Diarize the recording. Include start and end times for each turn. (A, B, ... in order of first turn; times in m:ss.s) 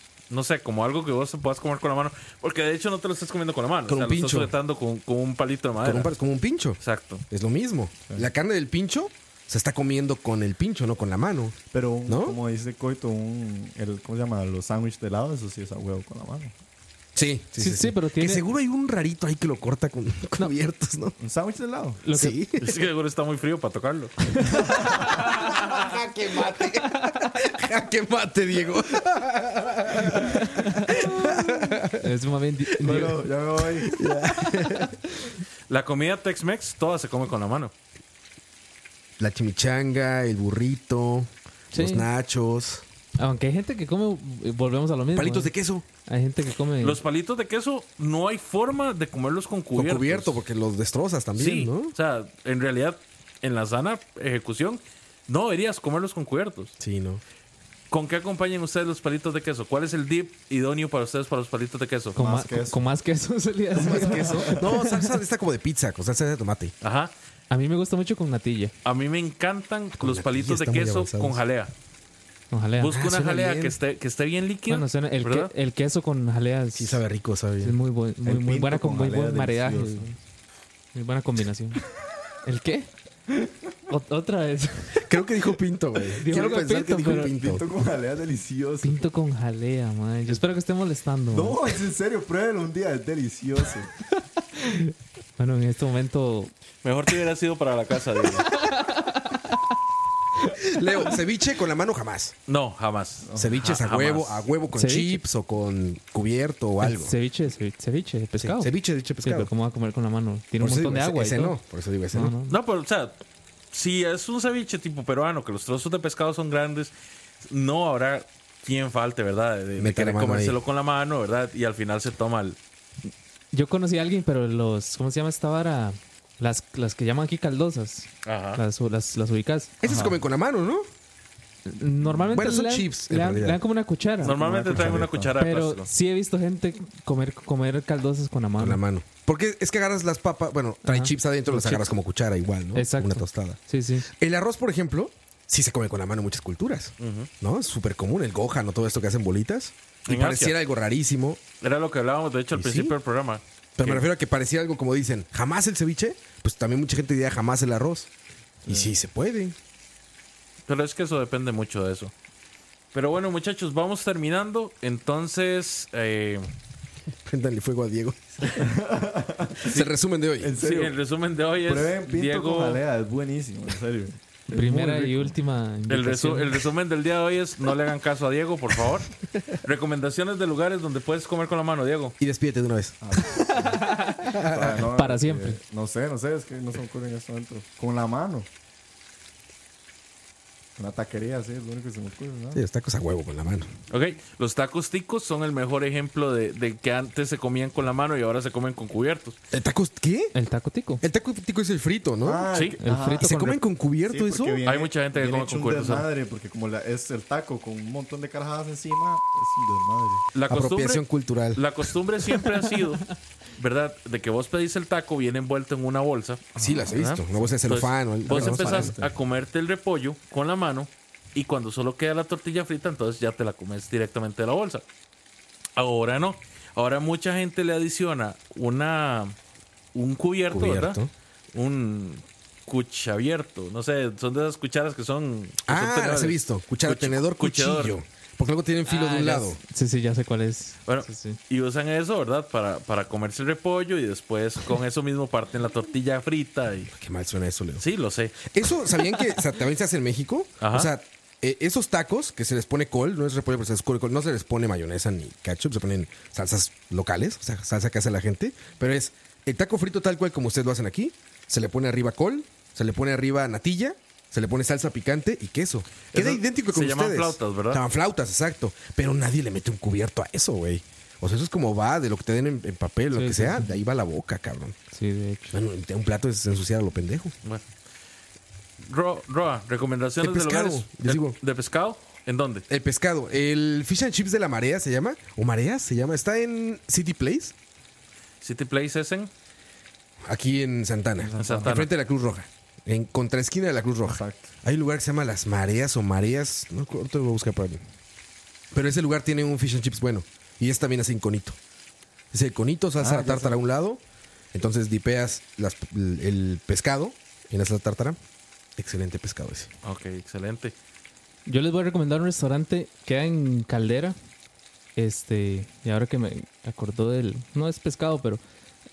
0:00.3-0:06.1 A
0:03.9-0:04.5 B
0:05.8-0:06.8 B
0:06.8-0:07.2 A
0:07.3-0:11.6 B
0:11.7-0:16.5 C
0:12.1-0:12.4 B
0:17.1-0:21.2 B
0:17.6-0:18.4 D
0:21.2-0:22.0 C
0:22.0-0:22.4 D
0:22.1-0:22.7 B
0:22.6-0:24.2 A
0:24.6-0:25.1 C
0:24.9-0:32.0 B
0:30.2-0:30.9 D
0:32.0-0:33.2 D
0:32.8-0:33.9 C
0:33.8-0:35.0 B
0:34.5-0:34.9 D
0:35.7-0:37.7 A
0:39.2-0:42.8 B
0:41.7-0:42.1 D
0:43.2-0:45.5 D
0:45.1-0:45.8 B
0:46.0-0:47.0 D
0:46.8-0:50.4 A
0:49.7-0:51.9 B
0:51.4-0:56.7 A
0:56.8-0:57.2 B
0:57.9-1:02.2 A
1:02.2-1:02.8 C
1:02.2-1:05.1 D
1:03.8-1:04.6 C
1:03.8-1:06.7 B
1:06.8-1:07.1 A
1:07.5-1:08.7 D
1:08.8-1:11.7 A
1:10.0-1:11.4 B
1:12.5-1:12.9 D
1:12.8-1:15.5 A
1:12.9-1:13.8 B
1:14.7-1:17.0 D
1:16.8-1:17.8 B
1:17.6-1:20.2 D
1:18.2-1:20.1 C
1:20.9-1:21.8 D
1:22.4-1:22.9 D
1:23.9-1:25.0 D
1:25.0-1:27.7 B
1:26.2-1:27.3 D
1:26.3-1:29.0 C
1:28.8-1:31.6 D
1:31.3-1:33.9 C
1:34.1-1:36.5 D
1:36.8-1:38.5 A
1:38.4-1:39.6 D
1:40.6-1:42.3 B
1:42.5-1:44.4 A
1:43.2-1:43.6 C
1:43.4-1:47.1 B
1:44.7-1:45.2 D
1:46.8-1:48.7 D
1:48.4-1:49.5 B
1:49.2-1:51.6 D
1:50.6-1:52.3 B
1:52.1-1:52.5 D
1:52.5-1:53.2 A
1:53.7-2:02.6 A
1:59.8-2:00.6 B
2:03.5-2:09.7 D
2:08.2-2:08.6 A
2:09.8-2:10.8 B
2:09.8-2:10.2 C
2:11.6-2:14.4 D
2:12.1-2:12.4 C
2:12.3-2:13.6 B
2:14.2-2:15.9 A
2:14.2-2:15.3 C
2:14.8-2:15.0 B
2:15.4-2:18.8 D
2:18.6-2:31.4 B
2:20.8-2:21.9 D
2:22.7-2:24.1 D
2:27.0-2:27.3 A
2:30.1-2:30.6 A
2:31.6-2:34.0 A
2:32.5-2:32.9 B
2:33.8-2:38.1 B
2:38.6-2:39.6 B
2:40.7-2:42.1 A
2:42.9-2:46.5 A
2:47.2-2:48.6 B
2:48.5-2:49.9 C
2:49.6-2:50.5 B
2:50.4-2:50.9 C
2:50.6-2:52.8 A
2:51.6-2:55.0 C
2:54.5-2:56.6 D
2:54.7-2:55.1 A
2:55.9-3:02.1 A
3:02.2-3:03.0 B
3:03.0-3:08.5 C
3:03.7-3:04.1 D
3:04.2-3:04.8 B
3:05.0-3:05.6 D
3:10.8-3:12.6 C
3:12.5-3:13.7 B
3:13.9-3:19.4 A
3:19.5-3:20.3 B
3:20.3-3:21.0 D
3:21.0-3:22.5 B
3:22.2-3:23.4 C
3:22.5-3:22.8 A
3:22.8-3:23.6 D
3:23.2-3:24.6 B
3:24.0-3:30.2 C
3:24.6-3:26.1 A
3:30.3-3:31.0 A
3:30.5-3:31.7 B
3:31.5-3:44.8 A
3:36.5-3:37.6 C
3:36.6-3:39.0 B
3:38.2-3:39.1 C
3:45.8-3:49.4 A
3:49.9-3:51.0 A
3:50.5-3:51.1 B
3:51.5-3:57.9 A
3:55.7-3:59.6 B
3:58.9-4:01.4 D
4:00.9-4:06.9 A
4:06.9-4:07.8 B
4:07.8-4:08.4 A
4:08.4-4:34.8 B
4:10.6-4:10.9 A
4:26.1-4:27.8 A
4:33.1-4:33.8 D
4:34.9-4:35.6 D
4:35.5-4:37.3 B
4:38.8-4:42.6 A
4:40.2-4:41.4 B
4:42.7-4:47.5 B
4:48.4-4:49.3 A
4:50.2-4:57.8 B
4:51.2-4:51.8 C
4:51.4-4:51.9 A
4:54.0-4:54.5 C
4:58.7-5:01.6 B
5:02.3-5:04.0 B
5:03.0-5:03.6 C
5:04.5-5:08.2 B
5:08.8-5:09.7 B
5:09.8-5:10.7 A
5:11.4-5:14.1 D
5:15.0-5:18.4 D